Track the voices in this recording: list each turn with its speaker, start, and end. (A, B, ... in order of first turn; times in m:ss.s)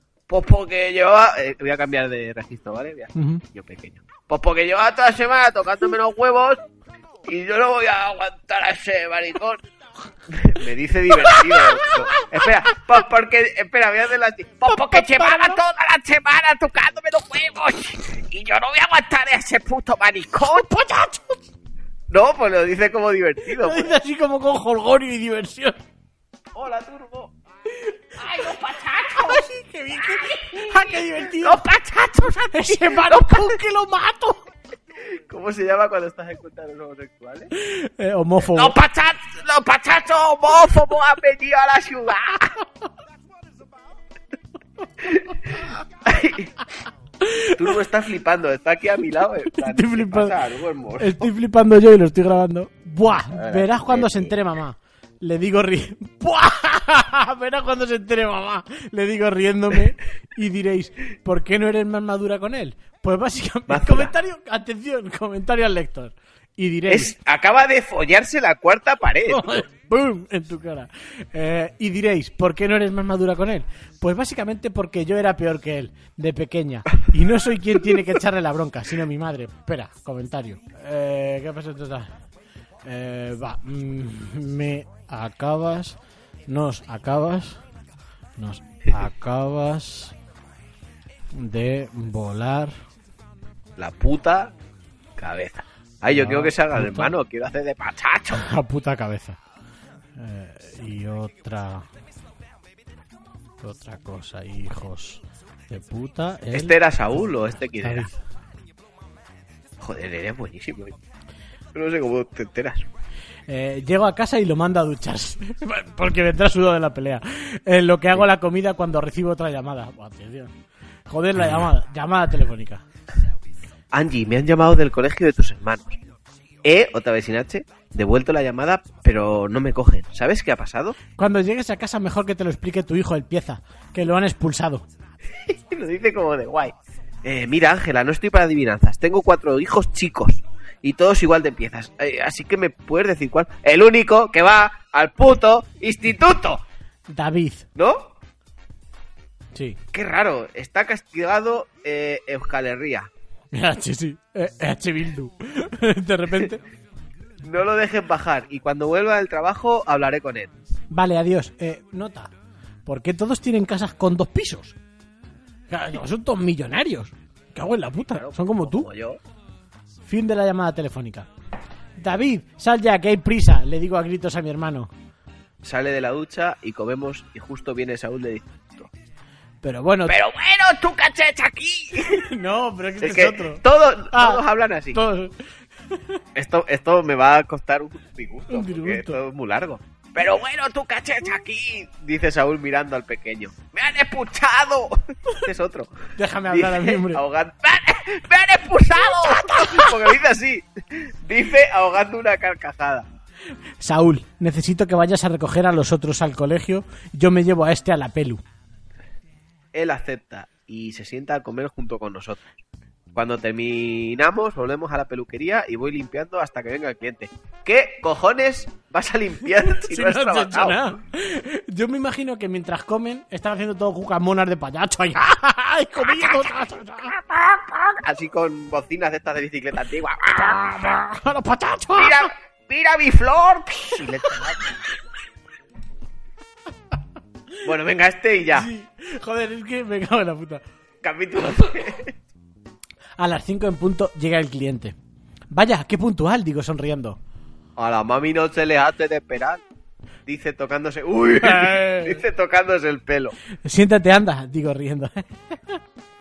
0:00.3-0:06.6 A
0:03.2-0:03.4 B
0:07.3-0:09.6 A
0:10.3-0:20.6 A
0:11.2-0:12.2 B
0:14.7-0:15.6 B
0:20.4-0:21.4 B
0:22.1-0:23.9 A
0:23.5-0:25.8 B
0:26.5-0:27.3 A
0:28.2-0:29.4 A
0:29.2-0:31.6 B
0:30.0-0:33.5 A
0:32.5-0:34.4 B
0:35.1-0:37.5 A
0:37.6-0:38.8 B
0:38.5-0:42.5 A
0:45.0-0:46.5 A
0:47.2-0:47.5 B
0:47.5-0:51.3 A
0:49.5-0:50.4 B
0:51.0-1:07.1 B
0:53.3-0:54.3 A
1:03.7-1:04.1 A
1:06.9-1:09.6 A
1:09.3-1:22.1 B
1:22.9-1:26.0 B
1:26.5-1:27.6 B
1:28.4-1:30.2 B
1:31.3-1:32.7 B
1:33.8-1:34.5 A
1:35.2-1:38.4 A
1:36.1-1:37.1 B
1:38.4-1:39.4 B
1:40.2-1:41.9 B
1:43.6-1:48.2 B
1:46.5-1:48.1 A
1:49.8-1:51.0 A
1:51.8-1:52.9 A
1:53.5-2:00.5 B
2:01.1-2:02.8 B
2:03.9-2:06.0 A
2:06.6-2:11.0 A
2:11.2-2:14.8 B
2:15.4-2:26.6 A
2:27.1-2:27.7 B
2:27.8-2:28.1 A
2:29.9-2:33.1 A
2:33.5-2:36.6 B
2:37.4-2:40.5 A
2:40.9-2:42.3 B
2:42.9-2:44.8 B
2:45.7-2:48.9 B
2:48.1-2:49.2 A
2:50.1-2:51.3 B
2:52.0-2:54.9 B
2:55.6-2:58.9 A
2:59.6-3:00.2 B
3:00.1-3:02.2 A
3:02.1-3:04.4 B
3:03.0-3:05.0 A
3:04.9-3:05.4 B
3:06.4-3:15.9 A
3:08.5-3:09.2 B
3:16.2-3:17.2 B
3:16.5-3:23.1 A
3:19.0-3:19.9 B
3:23.8-3:28.4 B
3:29.7-3:32.4 A
3:33.2-3:40.8 A
3:39.8-3:47.8 B
3:48.0-3:50.8 A
3:50.4-3:52.3 B
3:52.0-3:54.8 A
3:57.6-3:58.7 A
3:58.6-4:00.6 B
4:01.0-4:02.1 A
4:03.2-4:05.0 B
4:05.5-4:07.2 B
4:07.8-4:09.6 A
4:10.3-4:13.4 A
4:11.4-4:12.2 B
4:13.6-4:15.8 B